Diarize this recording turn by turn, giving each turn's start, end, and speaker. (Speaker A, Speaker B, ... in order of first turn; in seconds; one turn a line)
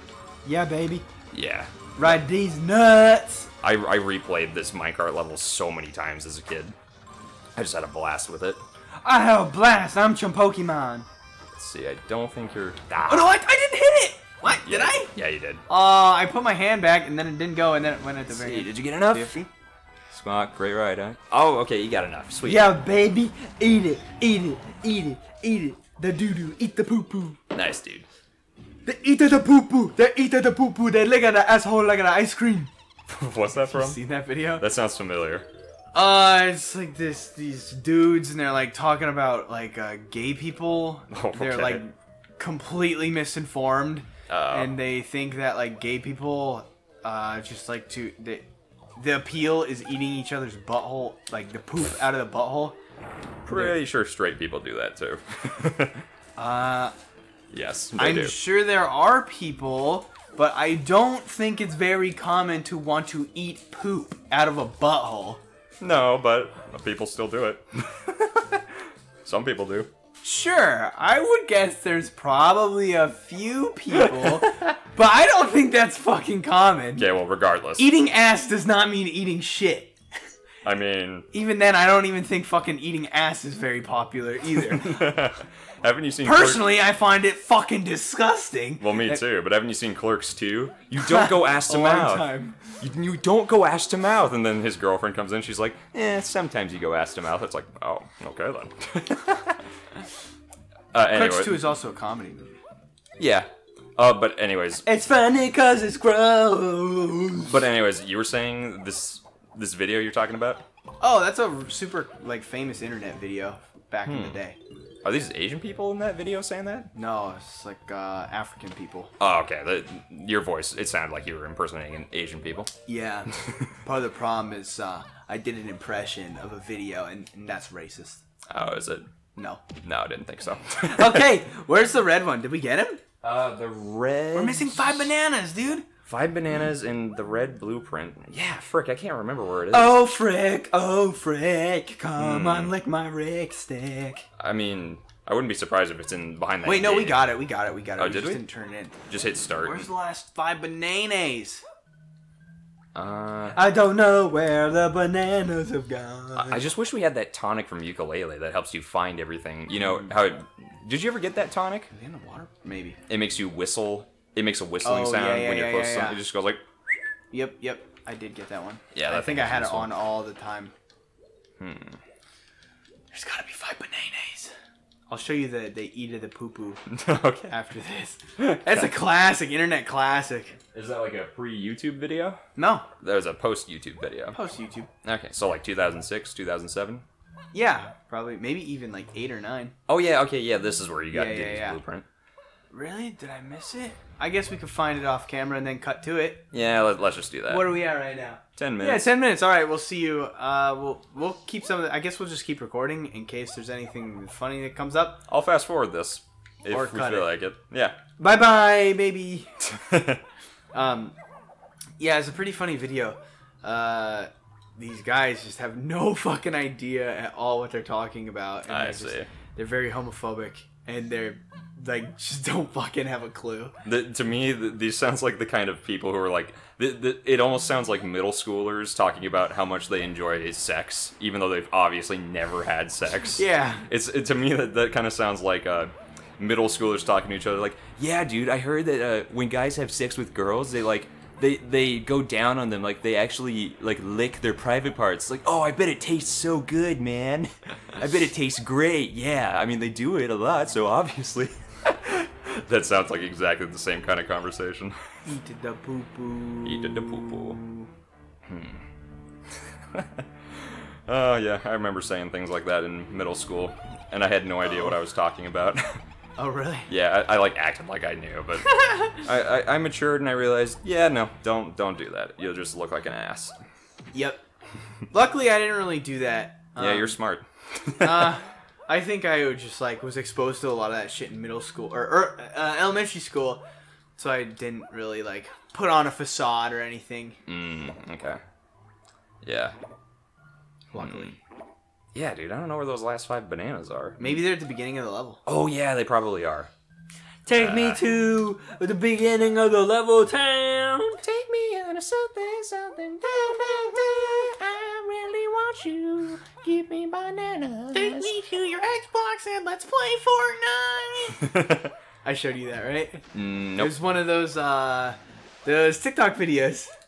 Speaker A: 0.5-1.1
Speaker B: 1.3-2.2
Speaker A: 2.0-3.5
Speaker B: 3.6-6.8
Speaker B: 7.6-8.6
Speaker A: 9.0-11.1
Speaker B: 11.5-13.4
Speaker A: 13.1-15.1
Speaker B: 14.5-15.6
Speaker A: 15.7-19.5
Speaker B: 18.3-19.4
Speaker B: 20.1-22.8
Speaker A: 22.4-27.4
Speaker B: 27.5-28.1
Speaker A: 28.9-32.7
Speaker B: 33.1-34.0
Speaker A: 33.6-34.7
Speaker B: 34.5-35.5
Speaker A: 35.9-52.8
Speaker B: 41.1-41.8
Speaker B: 44.3-44.8
Speaker B: 53.5-56.0
Speaker A: 53.5-53.8
Speaker A: 56.4-56.9
Speaker B: 57.5-58.4
Speaker A: 58.0-65.4
Speaker B: 65.8-68.7
Speaker B: 69.2-69.9
Speaker A: 70.2-77.1
Speaker B: 74.0-74.6
Speaker B: 77.0-77.9
Speaker A: 77.8-80.0
Speaker B: 80.6-81.3
Speaker A: 81.3-85.2
Speaker B: 84.5-86.7
Speaker A: 86.2-89.2
Speaker B: 88.8-99.6
Speaker A: 91.0-92.6
Speaker B: 100.9-101.6
Speaker A: 101.1-102.5
Speaker B: 103.2-104.8
Speaker A: 104.8-107.6
Speaker B: 107.5-110.7
Speaker A: 111.0-114.6
Speaker B: 114.1-114.4
Speaker B: 115.0-116.9
Speaker A: 117.0-119.1
Speaker B: 119.2-122.7
Speaker A: 122.9-128.2
Speaker B: 128.5-129.1
Speaker A: 129.4-129.6
Speaker B: 129.8-131.3
Speaker A: 130.9-133.0
Speaker B: 133.2-135.1
Speaker A: 134.3-135.8
Speaker B: 136.1-140.0
Speaker A: 139.7-144.3
Speaker B: 142.2-142.8
Speaker B: 144.4-147.3
Speaker A: 146.6-151.6
Speaker B: 148.0-148.4
Speaker B: 149.1-149.9
Speaker B: 152.9-153.6
Speaker A: 153.5-156.7
Speaker B: 156.4-161.9
Speaker A: 159.8-160.1
Speaker A: 161.9-163.0
Speaker B: 163.1-166.6
Speaker A: 164.8-166.2
Speaker A: 167.3-170.7
Speaker B: 168.9-170.0
Speaker B: 171.6-172.0
Speaker A: 173.1-174.5
Speaker A: 175.1-176.8
Speaker B: 176.9-177.5
Speaker A: 177.5-180.6
Speaker B: 180.7-182.4
Speaker A: 182.6-182.9
Speaker B: 183.0-184.4
Speaker A: 184.3-184.9
Speaker B: 185.0-187.1
Speaker A: 187.5-189.7
Speaker B: 189.9-192.1
Speaker A: 191.1-191.8
Speaker A: 192.7-196.5
Speaker B: 196.5-197.7
Speaker A: 197.5-205.2
Speaker B: 198.6-199.1
Speaker B: 205.3-208.0
Speaker A: 206.7-207.3
Speaker A: 208.2-209.5
Speaker B: 209.7-210.2
Speaker A: 210.7-211.2
Speaker A: 212.0-223.8
Speaker B: 218.7-219.3
Speaker B: 223.8-255.0
Speaker A: 233.4-233.8
Speaker A: 255.2-257.9
Speaker B: 256.6-257.6
Speaker B: 258.5-258.9
Speaker B: 259.9-266.0
Speaker A: 266.4-266.9
Speaker B: 266.9-273.6
Speaker A: 268.7-269.2
Speaker A: 274.1-274.4
Speaker A: 275.1-277.2
Speaker B: 276.8-278.4
Speaker A: 278.0-283.6
Speaker A: 284.2-287.4
Speaker B: 287.5-288.4
Speaker B: 289.4-289.8
Speaker A: 290.9-291.4
Speaker B: 290.9-291.4
Speaker B: 292.1-294.4
Speaker A: 294.2-295.4
Speaker B: 295.5-296.7
Speaker A: 297.5-301.2
Speaker B: 297.5-298.1
Speaker B: 301.2-308.3
Speaker A: 303.3-304.4
Speaker A: 307.9-311.5
Speaker B: 311.4-311.9
Speaker A: 312.2-313.2
Speaker B: 313.3-314.0
Speaker A: 313.8-316.9